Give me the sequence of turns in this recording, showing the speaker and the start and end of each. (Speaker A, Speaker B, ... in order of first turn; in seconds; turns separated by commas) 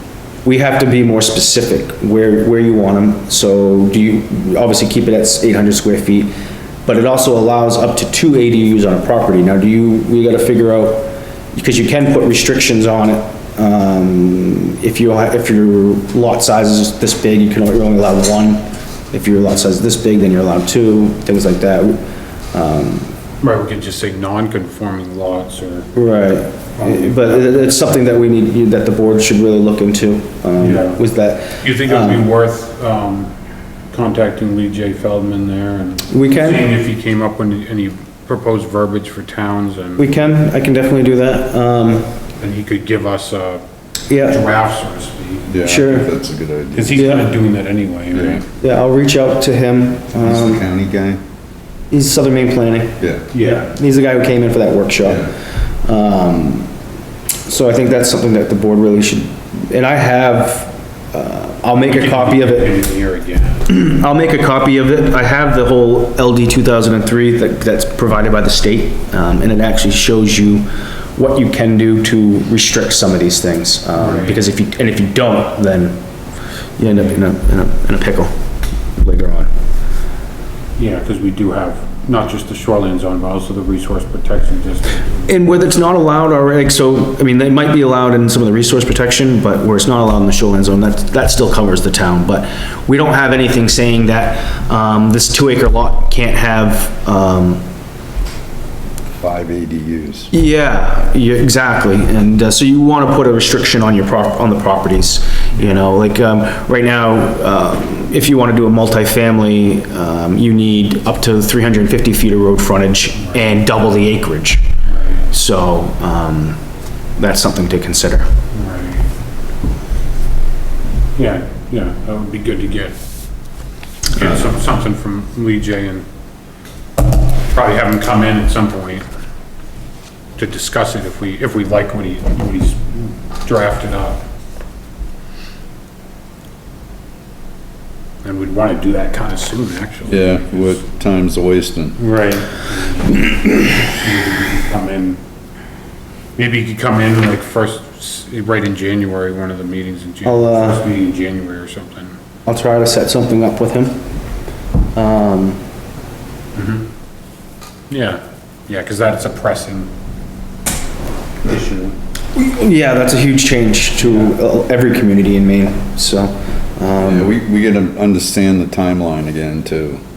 Speaker A: 0.4-6.3, Speaker A: 6.8-23.1, Speaker B: 23.4-25.9, Speaker A: 25.9-32.3, Speaker B: 26.8-27.7, Speaker B: 30.6-31.0, Speaker B: 31.6-33.3, Speaker B: 33.9-40.1, Speaker A: 36.1-36.7, Speaker A: 40.0-42.1, Speaker B: 42.4-43.6, Speaker A: 44.1-44.4, Speaker B: 44.2-45.5, Speaker C: 45.5-47.0, Speaker A: 45.6-46.1, Speaker B: 46.8-48.4, Speaker A: 46.9-47.3, Speaker C: 48.1-48.4, Speaker A: 48.6-50.6, Speaker C: 50.1-51.2, Speaker A: 51.9-56.7, Speaker B: 53.3-53.7, Speaker A: 57.4-62.7, Speaker B: 61.9-63.7, Speaker A: 63.7-76.0, Speaker B: 74.0-74.4, Speaker A: 76.8-78.4, Speaker A: 79.0-79.5, Speaker B: 80.8-85.3, Speaker A: 85.3-97.7, Speaker C: 99.2-100.3, Speaker A: 100.3-114.7, Speaker B: 114.8-115.3, Speaker A: 115.3-116.6, Speaker A: 117.2-118.3, Speaker B: 118.5-119.1, Speaker B: 121.2-123.0, Speaker B: 124.1-126.0, Speaker B: 127.5-129.1, Speaker B: 130.4-134.2, Speaker B: 138.2-140.8, Speaker C: 140.1-142.0, Speaker B: 142.0-145.2, Speaker B: 146.3-152.2, Speaker A: 150.2-150.8, Speaker A: 152.5-154.0, Speaker A: 154.9-155.6, Speaker B: 156.5-156.9, Speaker B: 157.9-159.9, Speaker B: 161.4-162.0, Speaker A: 162.3-167.3, Speaker C: 167.0-170.0